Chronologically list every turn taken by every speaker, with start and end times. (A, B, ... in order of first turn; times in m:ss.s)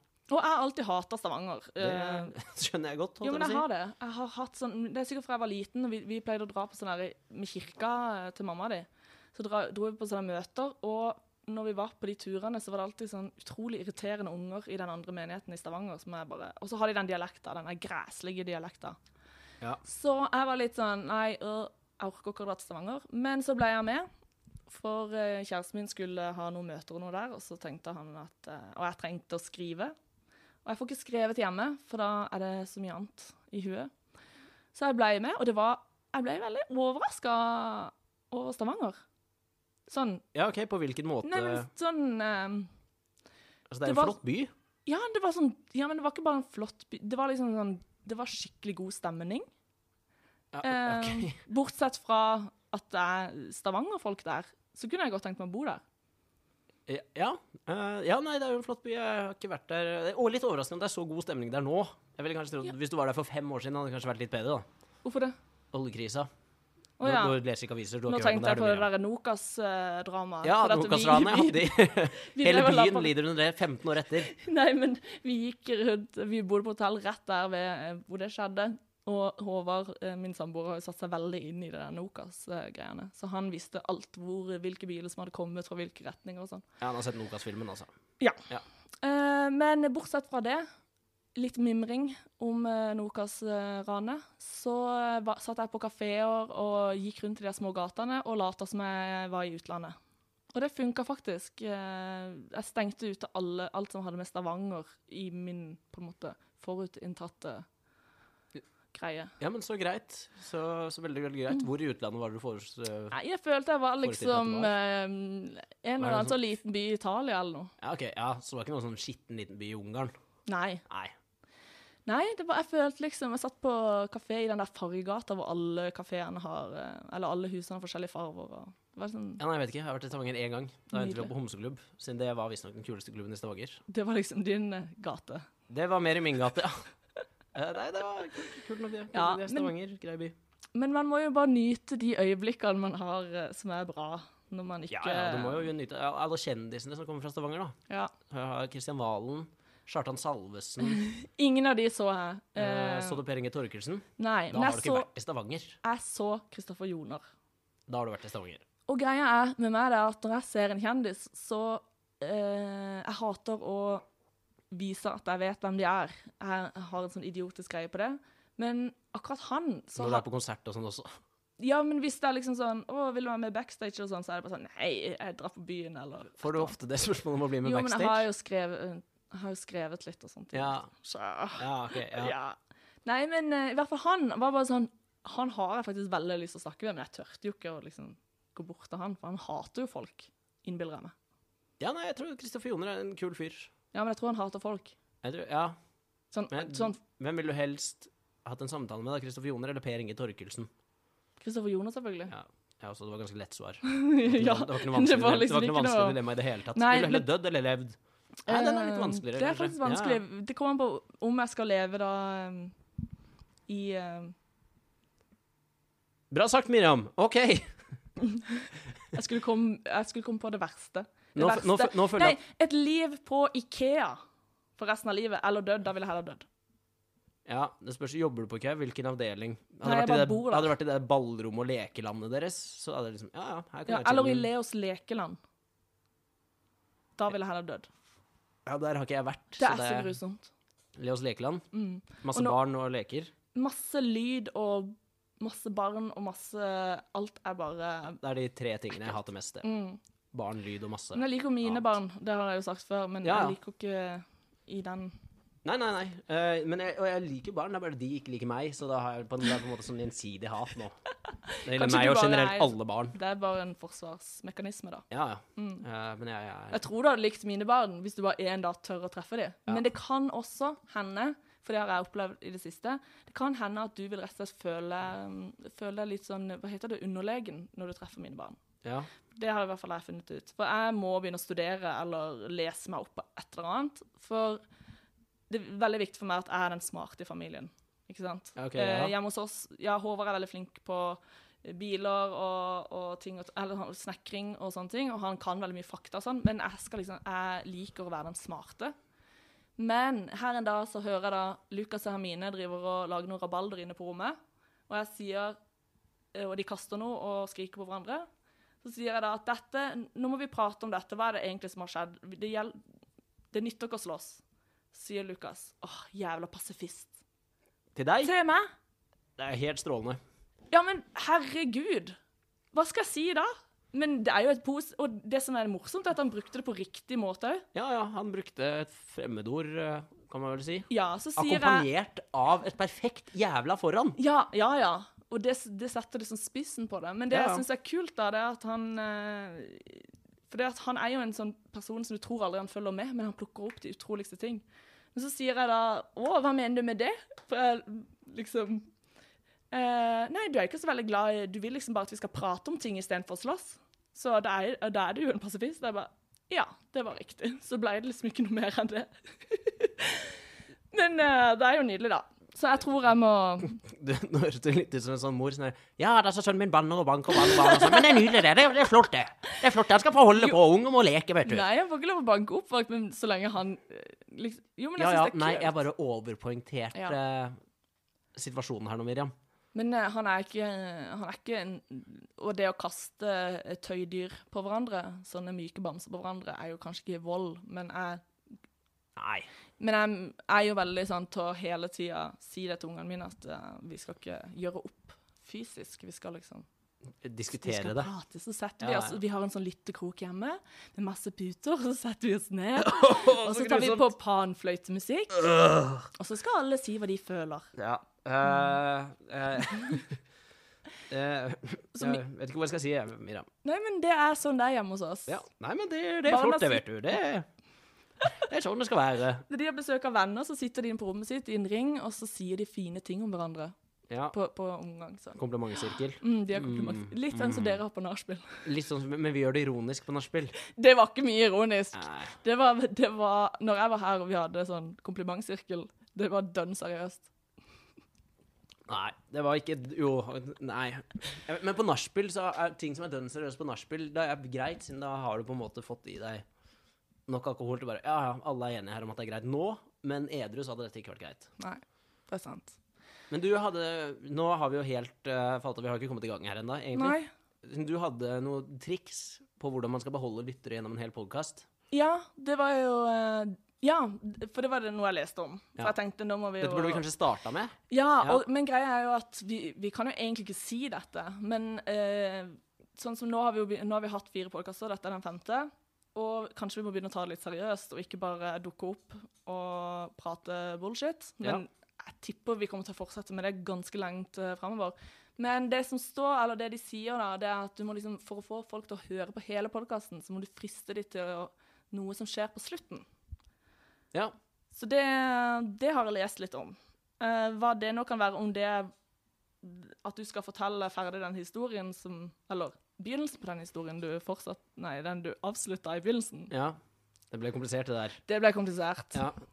0:00.3-0:02.3 A
0:01.8-0:03.7 B
0:03.2-0:19.0 A
0:19.8-0:24.1 A
0:24.7-0:30.0 A
0:30.6-0:33.9 A
0:34.7-0:39.0 A
0:39.9-0:40.2 A
0:40.3-0:41.7 B
0:41.2-0:42.7 A
0:43.7-0:44.5 B
0:43.8-0:44.2 A
0:44.9-0:49.5 A
0:50.5-0:51.4 B
0:50.6-0:55.8 A
0:56.9-1:04.7 B
1:05.0-1:05.4 A
1:05.7-1:06.3 B
1:07.0-1:07.4 A
1:07.0-1:08.9 B
1:08.1-1:13.1 A
1:10.4-1:14.3 B
1:14.2-1:26.6 A
1:26.8-1:27.9 B
1:29.0-1:30.7 A
1:31.4-1:40.0 A
1:40.5-1:47.7 A
1:48.9-1:49.3 A
1:49.4-1:53.2 B
1:53.1-1:57.7 A
1:54.0-1:54.7 B
1:56.0-1:56.4 B
1:57.8-2:00.1 B
2:00.5-2:00.8 A
2:00.9-2:01.1 B
2:02.1-2:09.4 A
2:09.4-2:13.8 B
2:10.9-2:11.3 A
2:13.9-2:15.5 A
2:15.7-2:16.8 B
2:17.5-2:20.3 B
2:19.1-2:19.7 A
2:20.7-2:25.7 A
2:24.9-2:27.8 B
2:27.9-2:28.1 A
2:28.3-2:31.0 B
2:30.8-2:33.2 A
2:32.6-2:35.8 B
2:34.2-2:35.1 A
2:35.8-2:37.2 A
2:37.9-2:38.6 B
2:38.9-2:44.0 A
2:44.7-2:50.2 A
2:50.0-2:51.1 B
2:51.6-2:56.7 A
2:56.4-2:58.3 B
2:57.6-3:11.1 A
3:00.5-3:00.9 B
3:01.6-3:02.4 B
3:11.8-3:13.7 B
3:13.9-3:15.0 A
3:15.2-3:15.8 B
3:16.3-3:17.0 A
3:16.5-3:20.7 B
3:21.4-3:22.3 A
3:22.3-3:30.2 B
3:23.8-3:26.2 A
3:26.7-3:27.3 A
3:28.5-3:32.8 A
3:33.7-3:34.4 A
3:36.3-3:37.7 B
3:38.2-3:44.2 A
3:41.4-3:42.4 B
3:44.8-3:46.4 A
3:47.5-3:54.5 B
3:49.8-3:50.7 A
3:53.9-3:55.4 A
3:57.2-3:57.9 A
3:58.7-4:00.2 B
3:59.6-4:00.5 A
4:01.0-4:01.6 B
4:01.7-4:02.6 A
4:02.2-4:03.3 B
4:03.5-4:08.2 A
4:08.2-4:09.7 B
4:09.6-4:10.0 A
4:10.3-4:11.8 B
4:11.1-4:15.2 A
4:13.2-4:13.6 B
4:15.6-4:21.0 B
4:21.5-4:25.8 A
4:21.6-4:23.2 B
4:25.1-4:26.8 B
4:26.7-4:38.6 A
4:38.8-4:39.1 B
4:39.3-4:44.6 A
4:45.5-4:59.0 A
4:48.6-4:49.1 B
4:59.8-5:04.4 A
5:04.9-5:05.6 A
5:06.3-5:08.3 A
5:08.8-5:12.8 A
5:13.5-5:14.4 A
5:14.9-5:17.2 A
5:18.0-5:18.3 B
5:18.2-5:18.7 A
5:19.4-5:20.2 B
5:20.7-5:22.2 A
5:22.7-5:27.7 A
5:27.7-5:34.2 B
5:30.9-5:31.9 A
5:34.2-5:48.9 A
5:37.3-5:37.6 B
5:49.7-6:03.8 A
6:03.8-6:11.6 B
6:07.3-6:08.4 A
6:11.4-6:15.8 A
6:15.0-6:17.6 B
6:18.4-6:19.3 B
6:19.7-6:28.2 A
6:29.2-6:29.5 B
6:29.8-6:36.7 A
6:37.2-6:38.1 B
6:37.6-6:45.4 A
6:38.8-6:39.2 B
6:42.8-6:44.1 B
6:45.3-6:46.1 B
6:46.1-6:47.7 A
6:47.8-6:50.2 B
6:51.1-6:53.5 B
6:53.6-6:55.4 A
6:55.3-6:57.5 B
6:56.3-6:56.8 A
6:58.4-6:59.4 B
6:59.5-7:03.8 A
7:04.1-7:04.4 B
7:04.3-7:05.4 A
7:05.4-7:07.8 B
7:06.2-7:08.6 A
7:08.6-7:10.6 B
7:10.6-7:17.3 A
7:11.9-7:12.4 B
7:18.9-7:26.4 B
7:27.3-7:31.5 B
7:31.6-7:32.8 A
7:33.3-7:41.7 B
7:37.0-7:37.3 A
7:41.9-7:47.0 A
7:46.6-7:48.4 B
7:47.9-8:13.1 A
8:14.7-8:18.9 A
8:19.6-8:26.5 A
8:26.5-8:26.8 B
8:27.3-8:28.2 B
8:28.3-8:29.2 A